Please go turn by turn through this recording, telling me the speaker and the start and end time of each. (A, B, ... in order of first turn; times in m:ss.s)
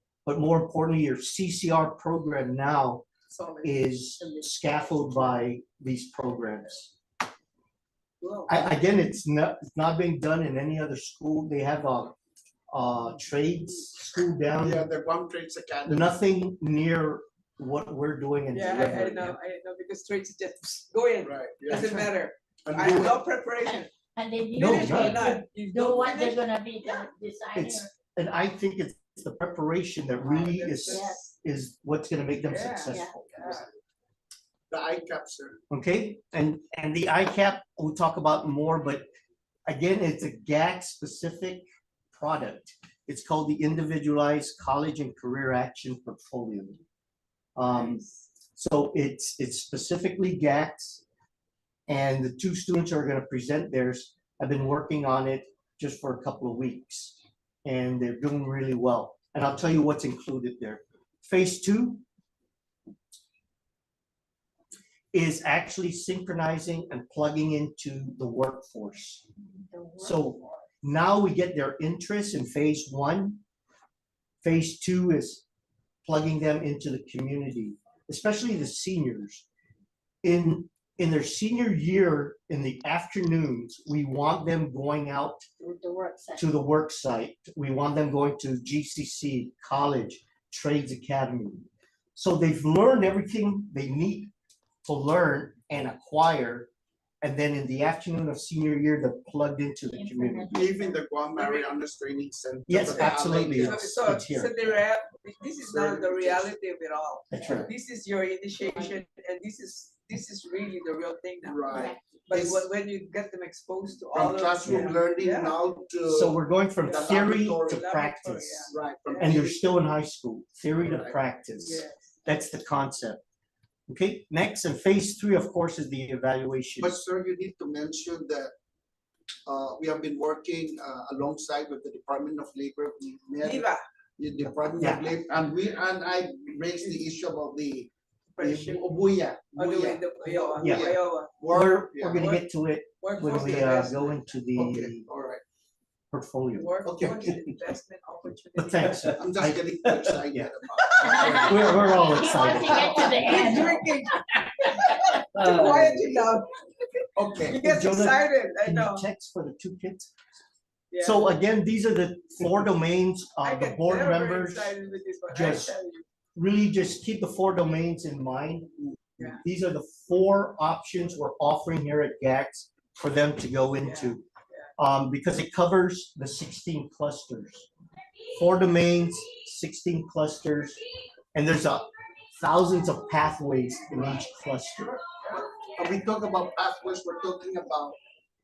0:00.2-0:03.0 A
0:03.3-0:05.2 B
0:03.6-0:07.0 A
0:08.2-0:08.8 B
0:08.5-0:12.2 A
0:12.7-0:14.9 A
0:14.6-0:16.2 C
0:15.9-0:19.4 A
0:18.5-0:23.9 B
0:21.2-0:22.0 C
0:21.8-0:22.1 A
0:22.7-0:23.2 C
0:23.6-0:27.9 D
0:24.6-0:25.2 A
0:24.6-0:26.4 B
0:27.5-0:33.7 A
0:30.2-0:31.3 B
0:30.9-0:31.2 D
0:32.4-0:33.6 B
0:32.9-0:33.2 D
0:34.7-0:35.6 C
0:35.7-0:39.1 A
0:39.7-0:46.8 A
0:47.6-0:48.0 A
0:47.6-0:48.3 B
0:48.6-0:51.0 A
0:51.9-1:02.0 A
1:05.1-1:09.2 A
1:09.4-1:10.6 D
1:10.0-1:13.4 A
1:14.4-1:15.4 A
1:16.0-1:19.4 A
1:20.2-1:25.5 A
1:25.6-1:26.5 D
1:26.4-1:34.3 A
1:34.8-1:36.7 A
1:37.2-1:40.7 A
1:39.9-1:41.0 D
1:40.5-1:44.0 C
1:41.3-1:41.7 B
1:42.7-1:44.8 A
1:43.6-1:51.8 B
1:45.6-1:46.5 C
1:47.3-1:47.7 A
1:51.4-1:52.7 C
1:51.7-1:52.2 D
1:52.3-1:55.7 B
1:54.1-1:57.8 C
1:54.6-1:54.9 A
1:56.1-2:03.2 A
1:56.8-1:59.4 B
1:58.7-1:59.7 C
2:00.8-2:01.2 C
2:01.6-2:02.0 B
2:03.9-2:07.0 A
2:06.8-2:08.5 C
2:09.5-2:22.4 C
2:13.4-2:13.8 B
2:14.8-2:15.1 A
2:18.4-2:18.9 B
2:19.6-2:21.3 B
2:20.6-2:25.1 A
2:23.0-2:24.3 B
2:24.6-2:25.4 C
2:26.1-2:27.5 A
2:26.5-2:29.2 B
2:26.8-2:27.2 C
2:28.6-2:30.5 A
2:29.0-2:31.7 C
2:30.9-2:31.3 B
2:31.0-2:33.1 A
2:31.0-2:33.9 D
2:32.6-2:36.5 B
2:35.1-2:35.5 D
2:37.2-2:37.7 C
2:37.4-2:39.1 B
2:37.6-2:40.1 A
2:40.9-2:41.3 B
2:41.0-2:44.8 A
2:43.4-2:46.0 B
2:45.3-2:45.8 A
2:46.4-2:54.2 A
2:53.8-2:54.7 B
2:54.8-2:57.7 A
2:58.3-3:00.8 A
3:01.3-3:05.0 A
3:05.3-3:08.0 C